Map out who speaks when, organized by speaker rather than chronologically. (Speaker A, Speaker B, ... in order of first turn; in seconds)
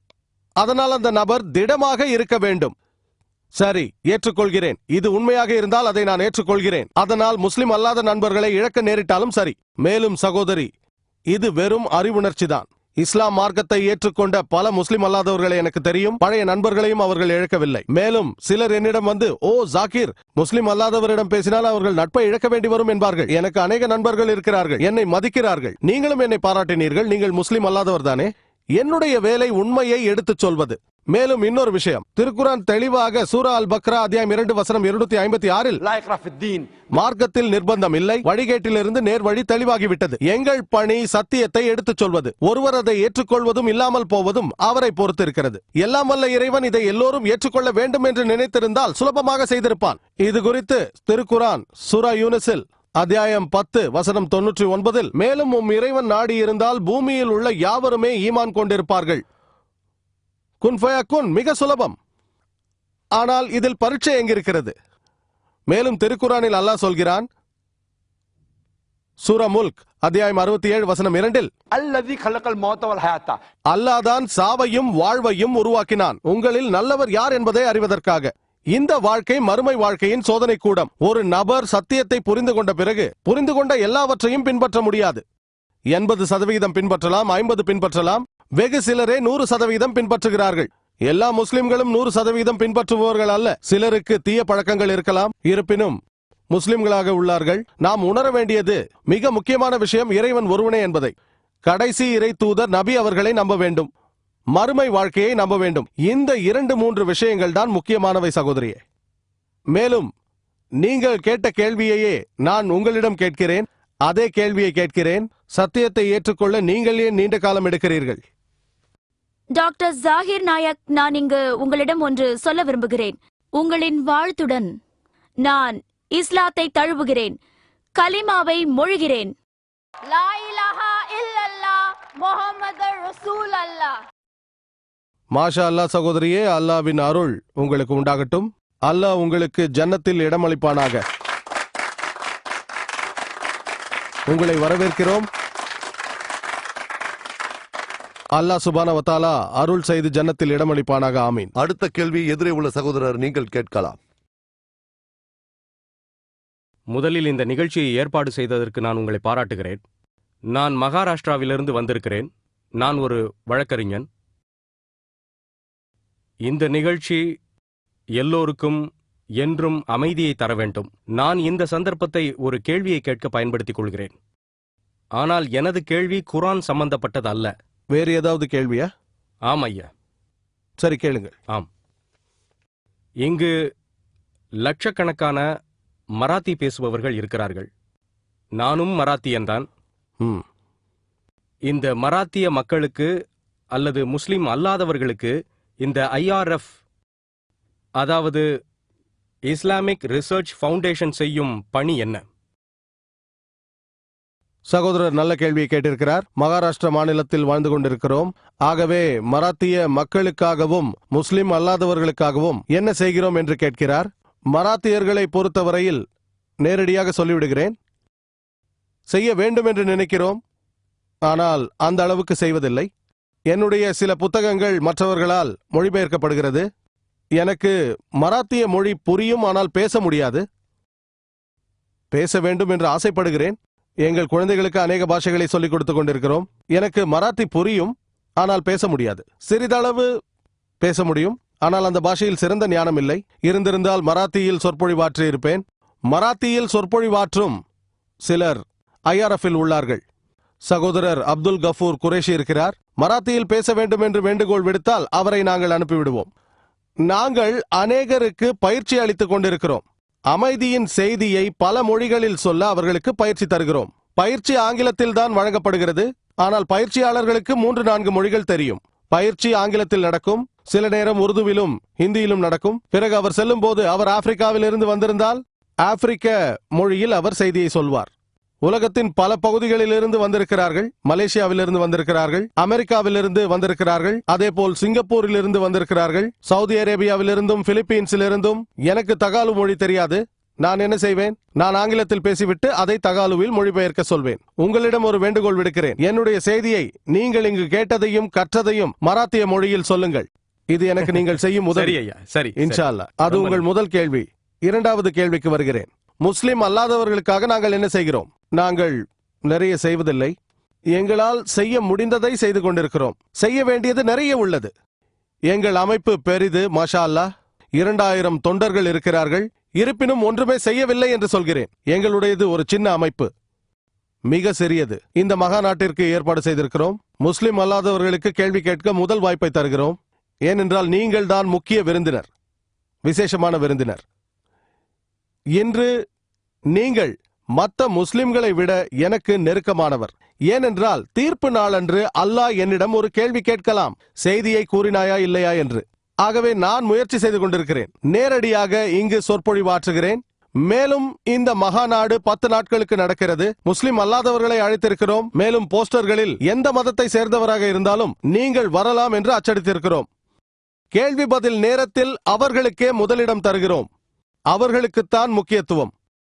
Speaker A: 0.6-2.7, 3.6-10.7, 11.3-35.8, 37.0-59.2, 60.6-62.0, 63.2-64.7, 65.7-67.3, 69.2-71.5, 73.7-85.2, 85.9-96.0, 96.5-101.1, 101.7-103.9, 104.6-108.8, 109.8-110.1, 110.8-118.2, 135.3-141.0, 144.3-145.3, 148.4-151.5, 177.9-178.9, 180.8-181.3, 204.7-216.0, 216.6-217.8, 219.1-220.4, 221.3-222.9, 223.5-226.7, 227.4-230.4, 232.1-240.1, 240.8-247.6, 248.2-250.0, 250.7-256.3, 257.1-278.1, 278.6-302.0, 302.6-310.3, 310.9-314.7, 315.5-323.3, 324.3-332.3, 333.1-334.0, 335.6-335.9, 336.7-360.1, 360.9-363.9, 364.5-365.9
Speaker B: 35.9-36.7, 71.8-73.3
Speaker C: 119.6-124.7, 125.5-127.3, 128.0-129.2, 130.1-134.0
Speaker D: 151.6-154.0
Speaker E: 156.9-159.8, 160.5-162.3, 162.8-164.1, 166.5-167.2, 168.2-168.8, 169.4-174.1, 175.2-177.5, 179.5-179.9, 184.7-185.4, 186.2-187.7, 188.6-189.7, 191.7-193.1, 193.8-195.3, 195.8-196.7, 198.0-198.4, 199.5-202.2, 301.0-303.6